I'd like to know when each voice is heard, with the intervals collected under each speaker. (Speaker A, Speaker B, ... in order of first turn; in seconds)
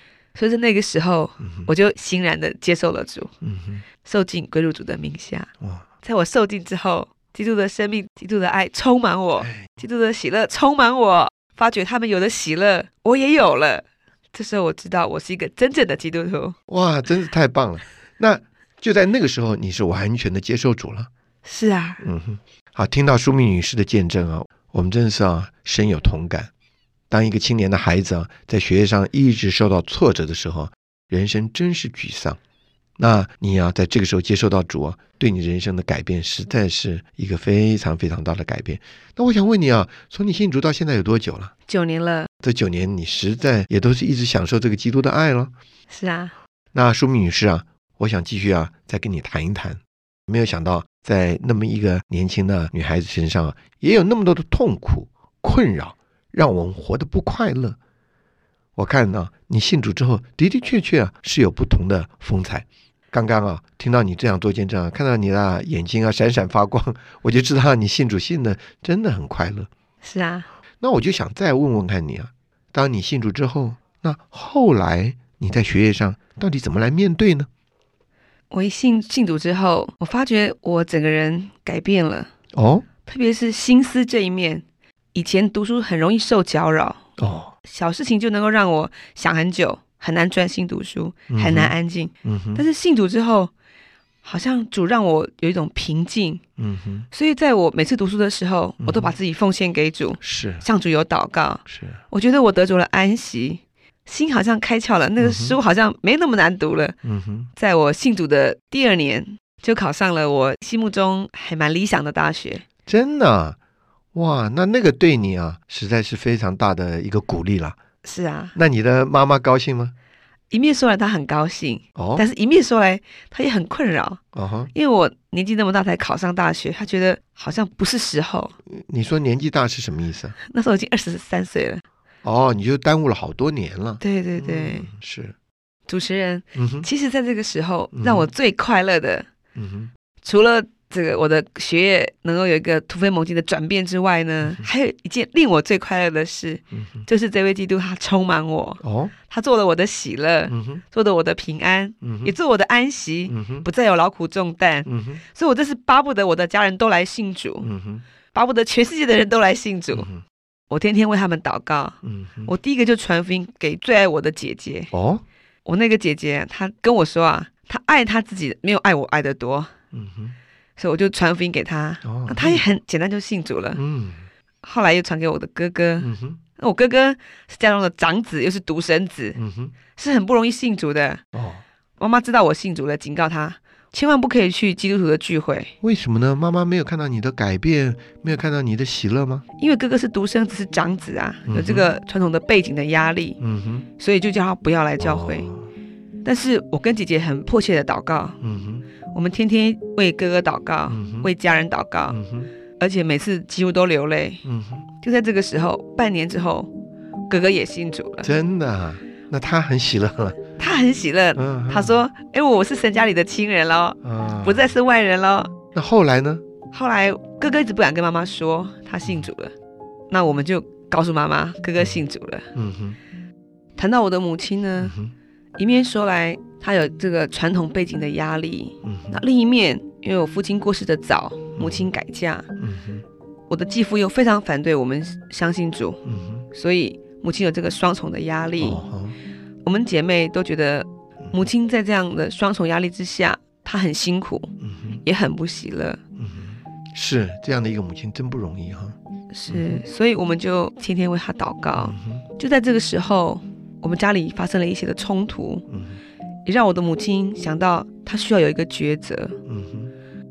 Speaker A: 0.3-3.3, 4.0-5.5, 6.0-16.6, 21.4-22.0, 41.7-42.3, 45.9-46.3, 70.0-70.5, 78.5-82.3, 83.0-87.0, 87.6-93.5, 94.2-96.4, 97.1-107.0, 107.5-112.6, 118.0-118.5, 120.5-124.2, 124.7-128.5, 130.5-131.8, 134.0-134.9, 135.9-139.3, 140.2-157.7, 158.3-160.1, 160.7-164.9, 165.7-169.7, 170.8-173.8, 174.6-179.4, 179.9-181.2, 182.0-185.7, 189.6-193.4, 194.0-195.5, 196.2-198.4, 199.1-202.2, 202.8-204.4, 205.0-206.7, 207.3-208.3, 210.6-215.5, 216.7-219.5, 220.1-222.5, 223.8-225.0, 225.6-232.5, 233.5-236.0, 236.5-238.8, 239.6-246.0, 249.3-255.7, 256.4-259.4
Speaker B: 1.4-1.7, 3.4-3.9, 5.6-5.8, 9.4-9.7, 16.7-21.1, 22.0-26.5, 27.1-32.4, 33.0-41.5, 42.4-45.5, 46.7-57.8, 58.8-69.7, 70.8-77.5, 82.5-82.8, 87.2-87.5, 91.3-92.7, 96.6-97.1, 98.8-99.1, 100.2-100.7, 101.7-102.0, 105.2-105.6, 107.0-107.5, 112.8-113.6, 114.1-117.8, 118.5-119.9, 122.0-122.2, 124.3-124.7, 128.7-130.3, 132.2-135.3, 136.5-136.9, 137.9-138.3, 139.5-139.9, 148.8-149.1, 150.5-150.8, 152.0-152.3, 153.3-153.7, 154.8-155.2, 157.6-158.0, 159.9-160.2, 162.0-162.5, 164.9-165.2, 169.9-170.3, 172.0-172.6, 173.7-174.3, 176.0-176.4, 179.3-179.7, 181.3-181.6, 185.8-189.4, 191.5-191.9, 193.4-193.9, 195.0-195.7, 198.4-198.9, 200.9-201.3, 202.1-202.5, 204.4-204.9, 208.2-210.4, 211.3-212.0, 214.0-214.7, 215.7-216.4, 219.0-219.3, 222.5-223.0, 224.8-225.1, 228.8-229.2, 231.6-231.9, 232.6-233.0, 236.0-236.5, 238.6-239.2, 244.6-245.0, 246.2-248.9, 249.5-249.8, 251.8-252.2, 255.7-256.0, 259.4-259.9